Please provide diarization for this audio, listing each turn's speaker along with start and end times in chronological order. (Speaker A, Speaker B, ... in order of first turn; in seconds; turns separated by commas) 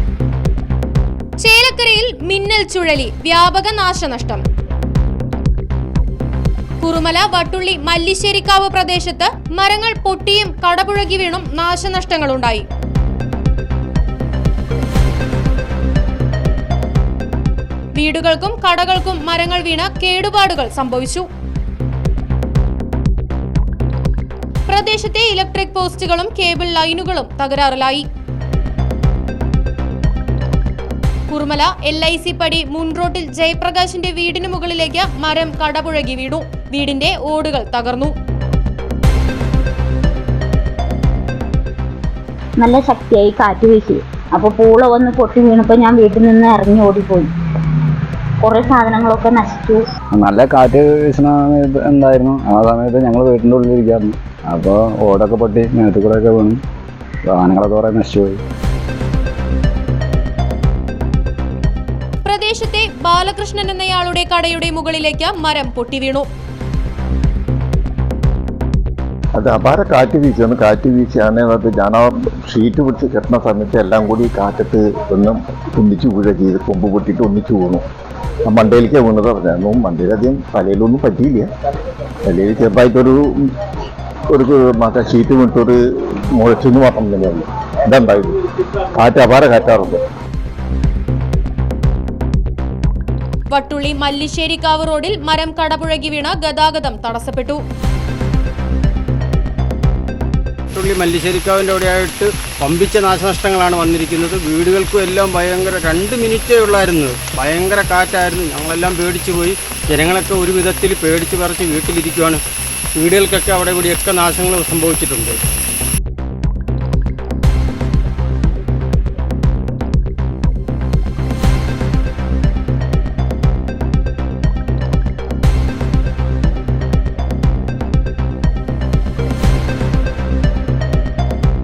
Speaker A: 1.4-4.4, Speaker A: 6.8-12.7, Speaker A: 18.0-21.2, Speaker A: 24.7-28.1, Speaker A: 31.3-38.1, Speaker B: 42.6-47.3, Speaker B: 48.4-49.8, Speaker C: 50.1-56.6, Speaker C: 57.3-58.4, Speaker A: 62.2-66.3, Speaker D: 69.4-77.8, Speaker D: 78.5-81.5, Speaker D: 82.2-83.2, Speaker D: 84.3-85.8, Speaker D: 86.3-88.4, Speaker D: 89.0-90.0, Speaker A: 93.5-97.6, Speaker E: 100.8-112.4, Speaker E: 113.0-115.4